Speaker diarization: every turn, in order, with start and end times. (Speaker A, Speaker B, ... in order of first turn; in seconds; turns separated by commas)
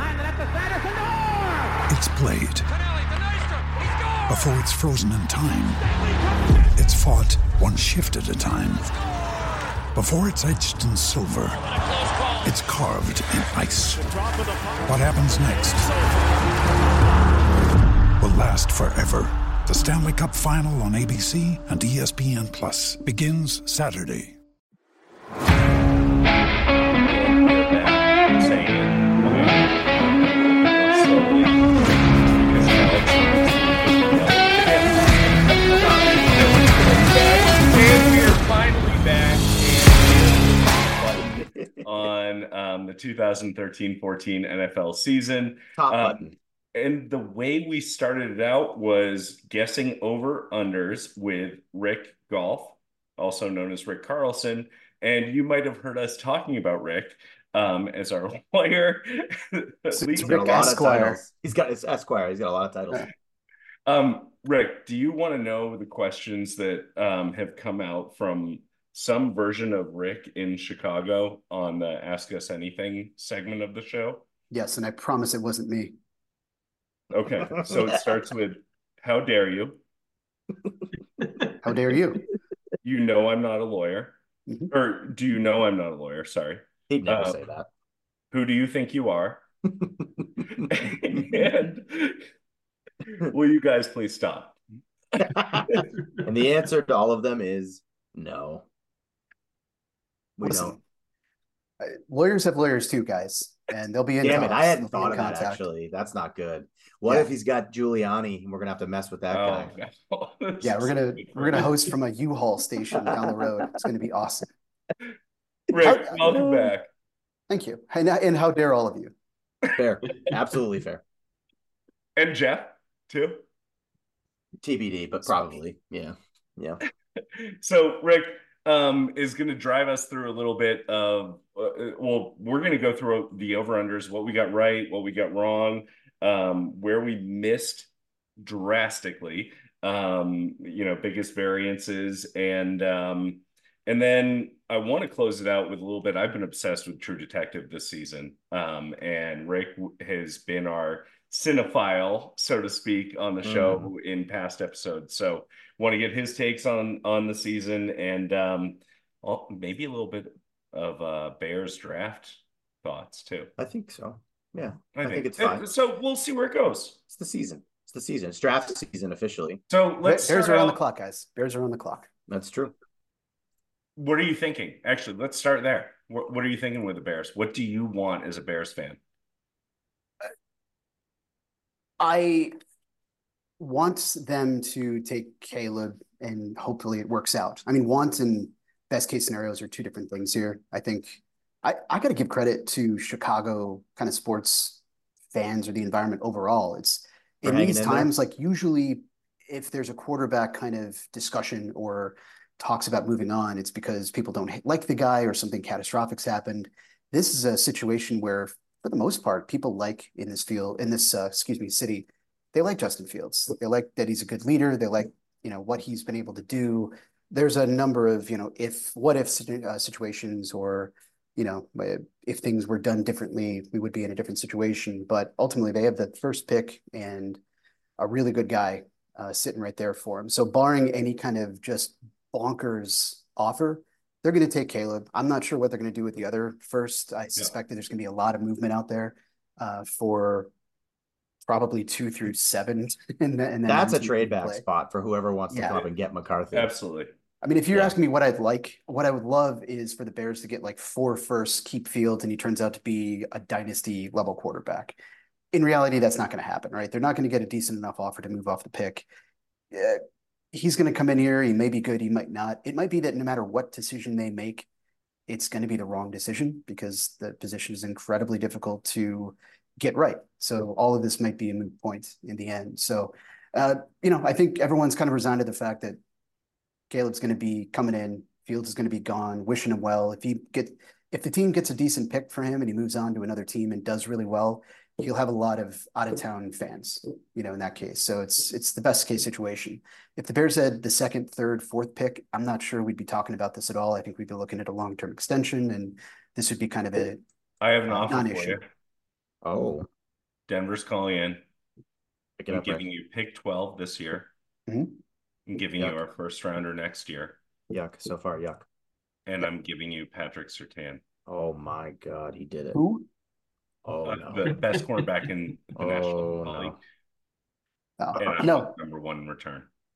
Speaker A: 1.9-2.7, Speaker A: 4.2-6.0, Speaker A: 6.6-8.9, Speaker A: 9.9-11.7, Speaker A: 12.4-14.2, Speaker A: 14.8-15.9, Speaker A: 18.2-24.3, Speaker B: 26.8-60.7, Speaker C: 35.7-36.3, Speaker C: 45.8-46.3, Speaker D: 59.9-61.2, Speaker C: 60.2-63.1, Speaker B: 63.9-74.2, Speaker D: 74.5-75.9, Speaker B: 77.1-79.8, Speaker D: 81.6-82.2, Speaker B: 82.8-84.1, Speaker D: 84.5-84.7, Speaker B: 84.7-87.4, Speaker C: 86.9-87.7, Speaker B: 88.3-89.4, Speaker B: 90.6-92.2, Speaker B: 93.1-94.6, Speaker B: 95.1-95.9, Speaker C: 95.3-98.6, Speaker C: 100.4-100.8, Speaker D: 100.4-100.8, Speaker D: 101.8-105.6, Speaker C: 104.2-109.7, Speaker D: 107.1-107.3, Speaker B: 109.3-111.8, Speaker D: 110.6-114.5, Speaker B: 115.7-116.9, Speaker D: 115.8-116.5, Speaker D: 117.5-119.1, Speaker C: 119.7-121.0, Speaker B: 122.2-123.4, Speaker C: 124.6-126.8, Speaker B: 127.3-137.9, Speaker B: 138.4-163.5, Speaker C: 153.4-153.9, Speaker C: 163.6-165.7, Speaker B: 164.9-167.0, Speaker C: 167.1-169.6, Speaker B: 169.7-170.8, Speaker D: 170.0-172.1, Speaker C: 172.3-172.7, Speaker B: 174.0-179.0, Speaker D: 182.0-182.5, Speaker D: 183.6-194.8, Speaker D: 195.3-227.4, Speaker C: 197.4-198.1, Speaker D: 228.0-240.5, Speaker D: 241.5-244.6, Speaker C: 243.7-246.7, Speaker D: 245.5-245.8, Speaker B: 246.5-247.1, Speaker D: 247.4-254.9, Speaker D: 255.5-259.1, Speaker D: 259.7-264.7, Speaker D: 265.3-276.0, Speaker D: 276.9-297.2, Speaker B: 297.6-298.6, Speaker D: 297.9-298.6, Speaker C: 299.4-299.9, Speaker B: 300.5-301.4, Speaker C: 302.4-302.9, Speaker B: 302.5-304.3, Speaker D: 304.7-305.0, Speaker B: 305.5-307.4, Speaker C: 307.7-308.6, Speaker B: 309.2-311.0, Speaker C: 311.3-312.8, Speaker D: 312.7-313.1, Speaker C: 313.8-314.5, Speaker B: 314.1-316.8, Speaker C: 315.7-316.8, Speaker D: 318.0-318.7, Speaker B: 318.1-319.7